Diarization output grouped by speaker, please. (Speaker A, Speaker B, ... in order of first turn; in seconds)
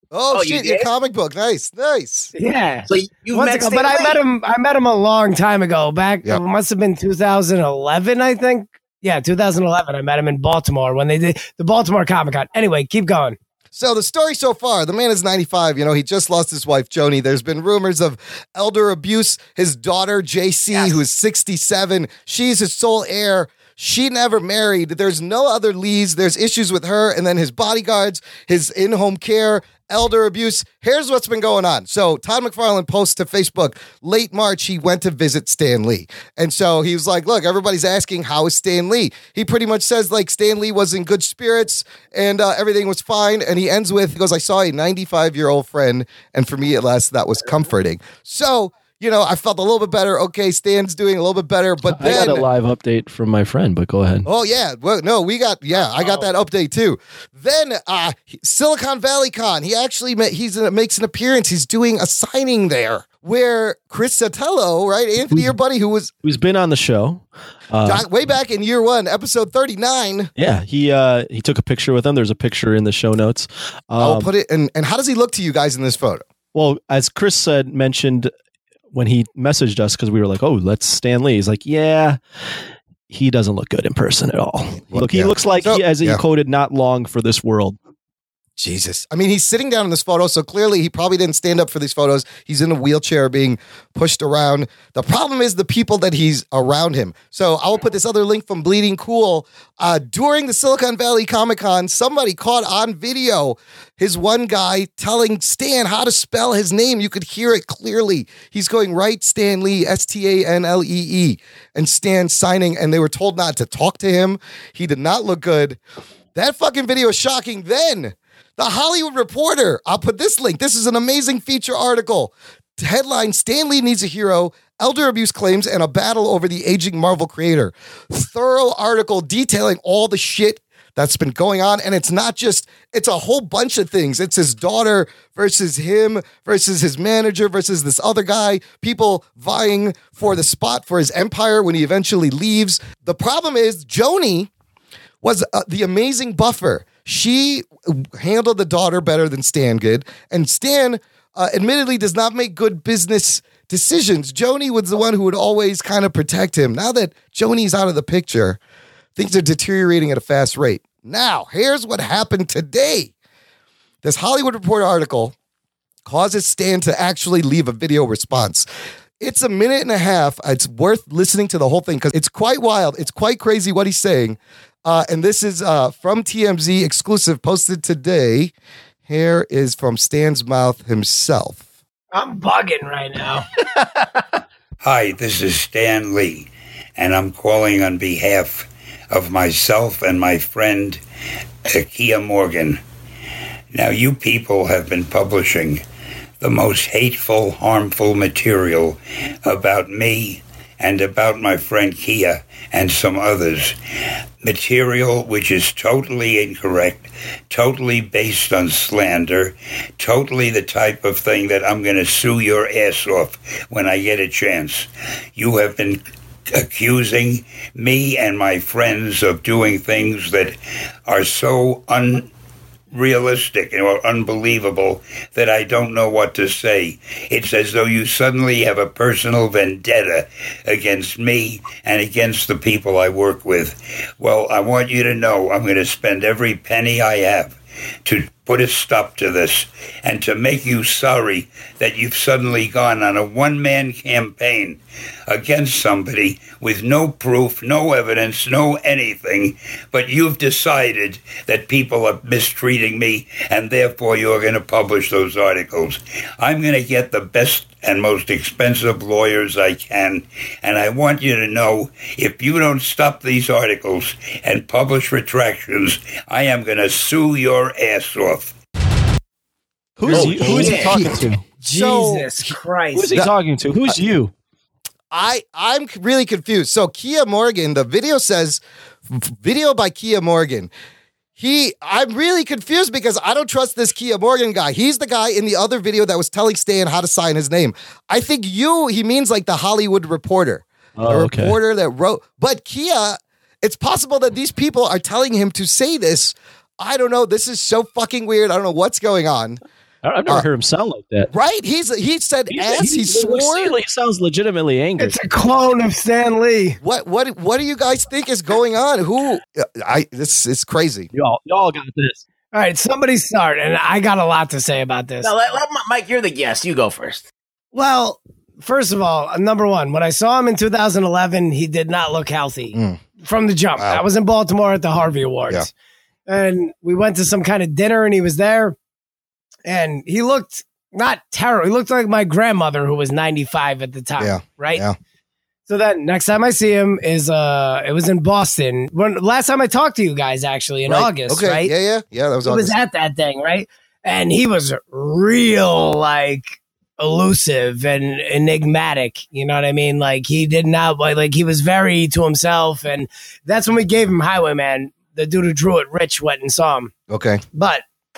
Speaker A: 0.1-2.3, 13.7-52.5, 54.2-66.1, 67.8-70.3, 74.0-76.2, 84.9-86.2, 88.6-115.8, 116.3-144.5, 145.2-158.6, 159.2-163.1, 164.0-165.3, 166.1-168.7, 169.2-178.5, 179.1-181.6, 270.0-272.5, 275.1-280.7, 281.4-299.6, 301.3-303.8, 306.8-311.1, 322.7-323.0, 323.8-324.0, 334.2-335.0, 340.9-342.8, 357.1-357.4
Speaker B: 0.3-0.9, 2.9-4.2, 270.1-271.0, 315.2-317.3
Speaker C: 2.4-13.4, 20.7-21.0, 56.0-56.2, 182.1-183.4, 271.7-273.1, 305.0-306.8, 312.5-315.3, 317.8-325.6, 326.3-328.7, 329.7-334.8, 335.7-341.7, 342.4-346.4, 347.0-356.9, 357.6-357.8
Speaker D: 51.9-54.3, 66.2-68.0, 70.4-74.3, 76.5-78.3, 78.9-82.2, 83.1-87.8, 270.0-271.4, 272.9-274.3, 291.0-291.6, 300.0-301.3, 302.5-305.2, 311.1-312.2
Speaker E: 184.8-191.0, 191.7-192.8, 193.7-195.8, 196.4-203.8, 204.4-216.0, 216.5-222.3, 222.9-268.5